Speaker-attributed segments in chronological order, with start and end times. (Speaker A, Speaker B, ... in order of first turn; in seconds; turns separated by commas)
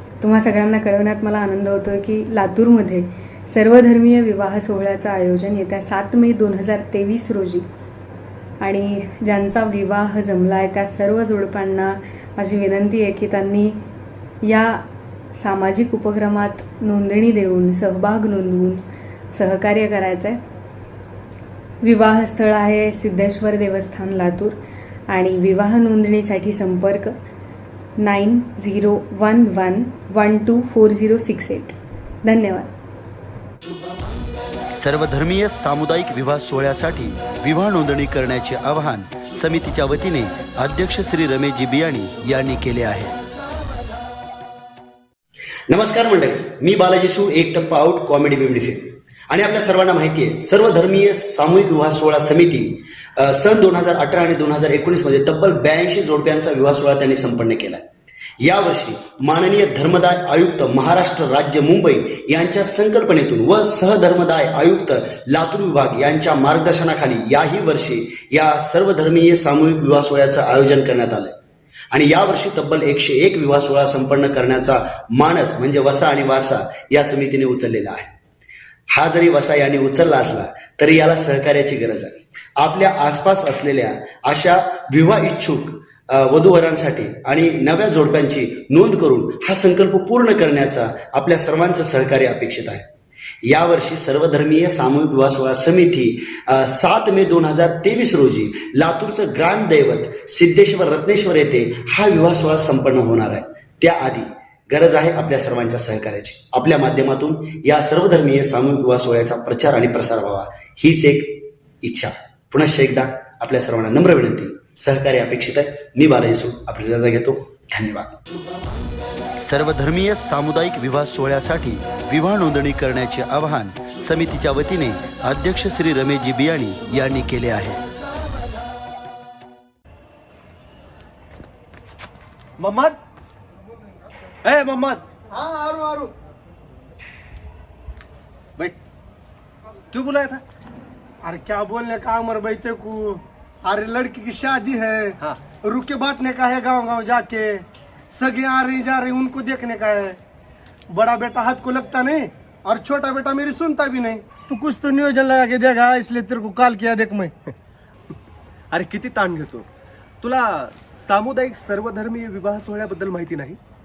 Speaker A: 0.2-7.7, Speaker A: 8.6-13.8, Speaker A: 14.4-14.8, Speaker A: 15.3-20.4, Speaker A: 21.8-24.6, Speaker A: 25.1-27.1, Speaker A: 28.0-32.7, Speaker B: 34.7-43.1, Speaker C: 45.7-57.8, Speaker C: 58.4-71.4, Speaker C: 71.9-78.1, Speaker C: 78.9-92.9, Speaker C: 93.4-118.1, Speaker B: 119.4-127.8, Speaker D: 132.6-132.9, Speaker E: 134.5-135.0, Speaker D: 134.6-136.1, Speaker E: 139.9-140.4, Speaker D: 141.2-150.2, Speaker D: 150.9-157.3, Speaker E: 158.7-159.7, Speaker E: 160.2-163.6